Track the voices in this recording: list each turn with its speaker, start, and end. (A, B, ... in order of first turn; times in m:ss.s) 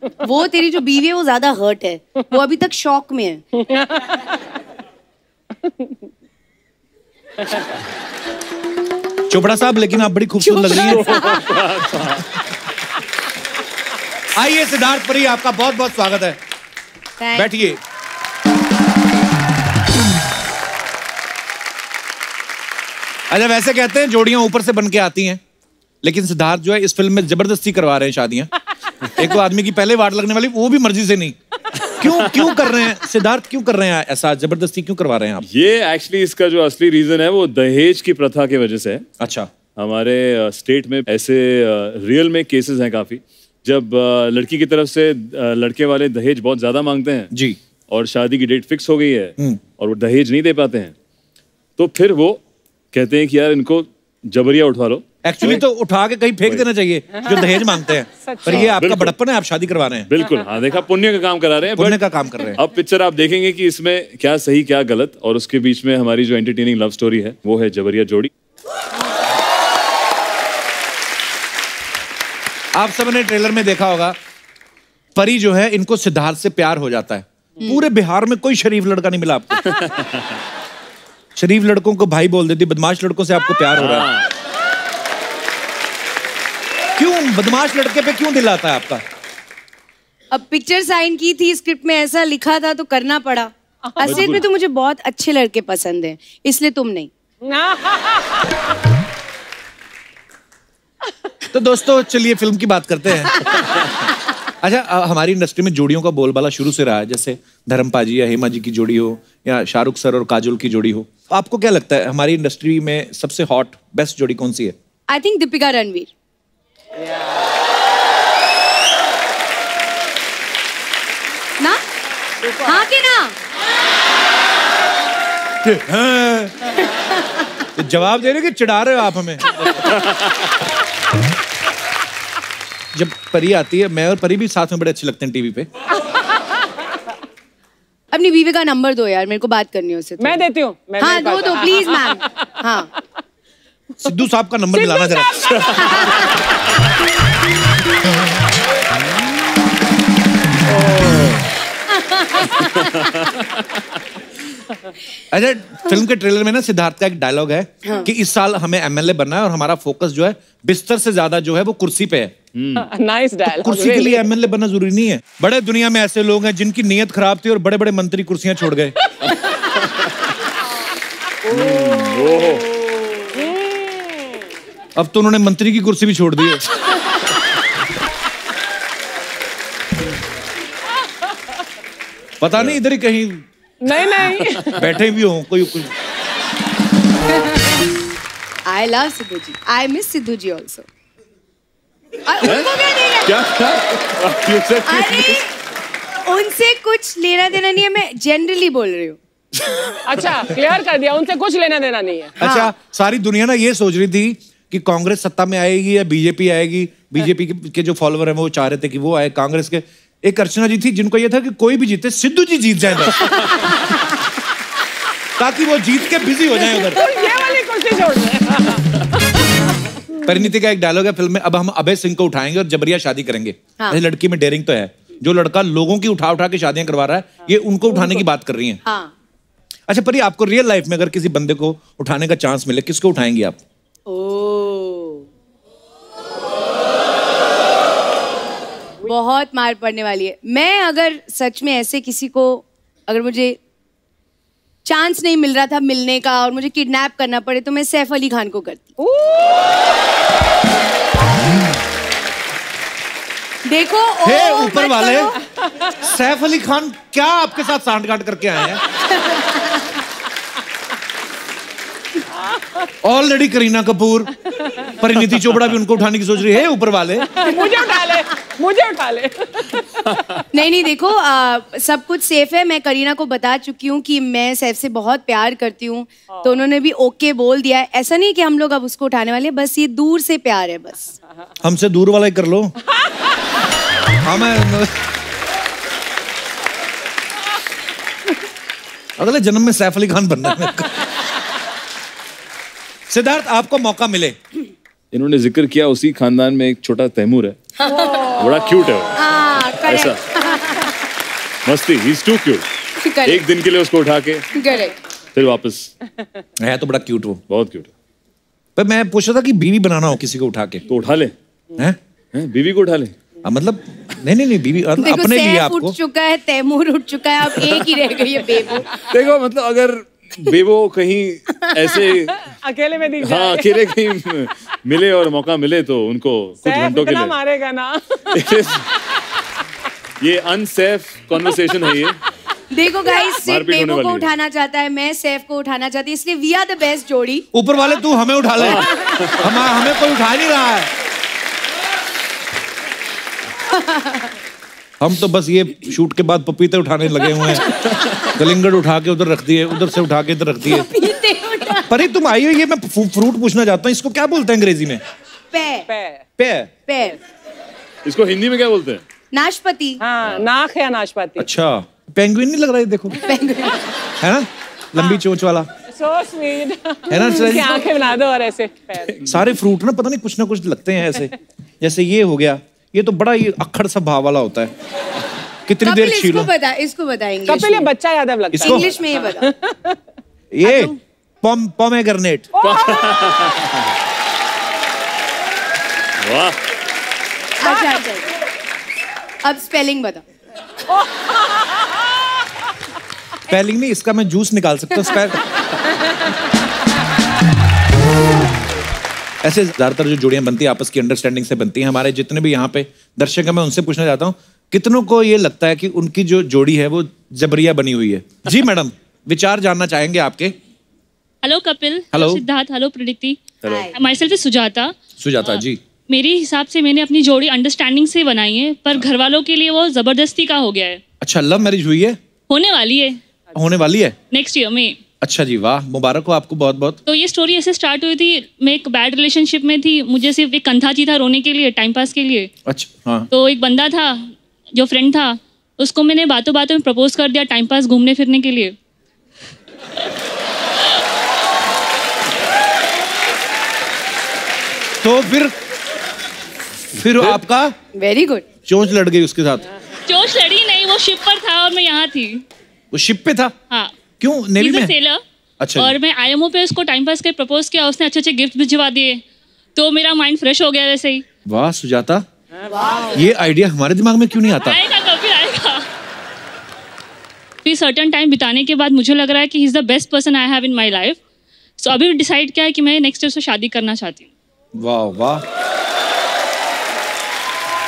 0:00.2-0:03.4 A
0:09.3-0:11.2 B
0:10.6-0:12.2 C
0:10.7-0:11.4 A
0:14.3-0:16.4 B
0:17.2-0:17.5 A
0:17.3-0:17.8 B
0:23.3-0:25.4 B
0:26.0-0:28.5 B
0:29.0-0:31.4 B
0:32.0-0:35.5 B
0:32.0-0:32.8 C
0:35.4-0:39.0 C
0:39.2-0:39.5 B
0:39.8-0:47.3 C
0:47.3-0:47.6 B
0:47.9-0:50.9 C
0:51.8-0:52.4 C
0:52.9-0:55.6 C
0:55.2-1:00.1 B
0:58.5-0:59.2 C
1:00.1-1:02.0 C
1:01.8-1:02.6 B
1:02.6-1:08.3 C
1:12.7-1:14.2 B
1:15.2-1:19.6 B
1:17.6-1:17.8 A
1:19.8-1:20.0 C
1:21.4-1:24.1 B
1:23.8-1:24.2 C
1:27.0-1:29.0 B
1:30.3-1:37.1 A
1:34.0-1:34.4 C
1:41.5-1:43.4 B
1:44.6-1:54.7 B
1:55.1-1:56.1 A
2:02.6-2:03.3 A
2:05.6-2:06.6 B
2:07.8-2:09.6 B
2:12.9-2:15.7 B
2:18.1-2:20.4 A
2:20.3-2:21.5 D
2:21.0-2:22.9 A
2:24.0-2:25.8 B
2:24.8-2:25.2 A
2:25.8-2:26.3 A
2:32.0-2:32.6 A
2:32.6-2:33.4 C
2:35.3-2:42.3 B
2:42.5-2:42.9 C
2:42.8-2:44.1 D
2:43.5-2:48.9 B
2:49.3-2:50.1 C
2:51.5-2:52.7 C
2:55.0-2:56.6 B
3:02.4-3:03.4 B
3:04.0-3:04.4 D
3:04.2-3:04.8 C
3:04.8-3:05.9 B
3:08.6-3:10.9 A
3:12.2-3:13.4 A
3:12.4-3:12.7 C
3:13.2-3:15.4 C
3:14.8-3:15.5 A
3:16.2-3:19.2 A
3:20.1-3:22.3 D
3:20.3-3:20.7 E
3:22.4-3:33.5 B
3:22.4-3:22.7 A
3:35.3-3:37.0 B
3:37.1-3:38.8 D
3:40.2-3:48.8 B
3:48.8-3:49.1 A
3:49.9-3:53.6 B
3:54.1-3:55.3 A
3:59.0-4:03.6 A
4:04.8-4:08.9 A
4:13.6-4:15.3 A
4:14.2-4:15.3 B
4:16.0-4:18.8 B
4:23.0-4:27.4 B
4:27.4-4:29.5 D
4:30.5-4:41.1 A
4:41.6-4:42.7 B
4:44.2-4:44.9 B
4:49.2-4:51.1 B
4:53.1-4:54.4 B
4:55.1-4:57.6 C
4:57.8-4:58.3 A
4:58.3-4:59.2 C
4:59.1-5:00.9 A
4:59.8-5:00.2 C
5:01.6-5:02.6 C
5:03.0-5:03.4 A
5:03.2-5:04.4 C
5:04.5-5:04.9 A
5:05.3-5:05.9 C
5:06.6-5:07.4 B
5:07.5-5:07.9 C
5:08.8-5:10.8 B
5:10.9-5:11.3 C
5:12.3-5:13.1 C
5:13.4-5:15.9 B
5:15.0-5:18.9 A
5:19.1-5:22.5 C
5:22.6-5:23.7 D
5:23.2-5:27.4 C
5:26.6-5:28.0 D
5:28.3-5:28.9 C
5:30.2-5:32.2 C
5:32.7-5:37.4 A
5:33.2-5:34.3 C
5:37.5-5:40.9 B
5:38.6-5:39.4 C
5:43.7-5:44.2 A
5:45.0-5:50.9 B
5:50.6-5:52.0 A
5:51.9-5:55.0 B
5:55.5-5:55.9 A
5:56.4-5:56.7 B
5:56.8-5:57.2 A
5:58.0-5:59.0 C
5:59.3-6:00.0 A
6:00.0-6:01.4 D
6:01.4-6:03.2 B
6:03.2-6:03.9 A
6:04.2-6:05.7 B
6:06.0-6:07.0 D
6:06.1-6:06.7 E
6:07.1-6:07.8 B
6:07.1-6:07.9 A
6:07.6-6:09.0 D
6:08.1-6:08.5 E
6:09.1-6:09.4 C
6:09.2-6:14.7 B
6:15.7-6:16.5 B
6:15.8-6:17.9 A
6:17.7-6:18.7 D
6:18.5-6:18.9 B
6:18.5-6:19.5 A
6:20.5-6:22.5 B
6:20.6-6:21.0 A
6:22.6-6:23.8 C
6:26.2-6:26.6 C
6:27.6-6:28.3 A
6:29.4-6:30.2 A
6:33.5-6:35.4 B
6:39.4-6:50.6 B
6:51.4-6:53.4 E
6:52.1-6:52.4 B
6:53.6-6:53.9 C
6:53.7-6:53.9 A
6:53.9-7:01.0 E
6:55.2-6:55.8 B
7:01.2-7:02.2 B
7:02.5-7:03.2 E
7:03.5-7:04.2 B
7:04.3-7:05.0 E
7:05.2-7:07.0 B
7:07.1-7:12.5 E
7:12.6-7:13.3 B
7:13.3-7:18.7 E
7:25.0-7:25.5 B
7:26.9-7:27.7 B
7:27.9-7:28.4 A
7:28.7-7:29.7 B
7:30.0-7:32.4 E
7:32.9-7:33.5 B
7:33.7-7:34.0 E
7:34.2-7:34.9 B
7:34.6-7:35.2 E
7:35.6-7:35.9 B
7:35.8-7:39.2 E
7:39.8-7:41.2 E
7:41.4-7:42.2 B
7:43.0-7:44.8 B
7:44.6-7:45.8 E
7:47.6-7:51.2 E
7:51.8-7:54.3 E
7:54.8-7:55.4 B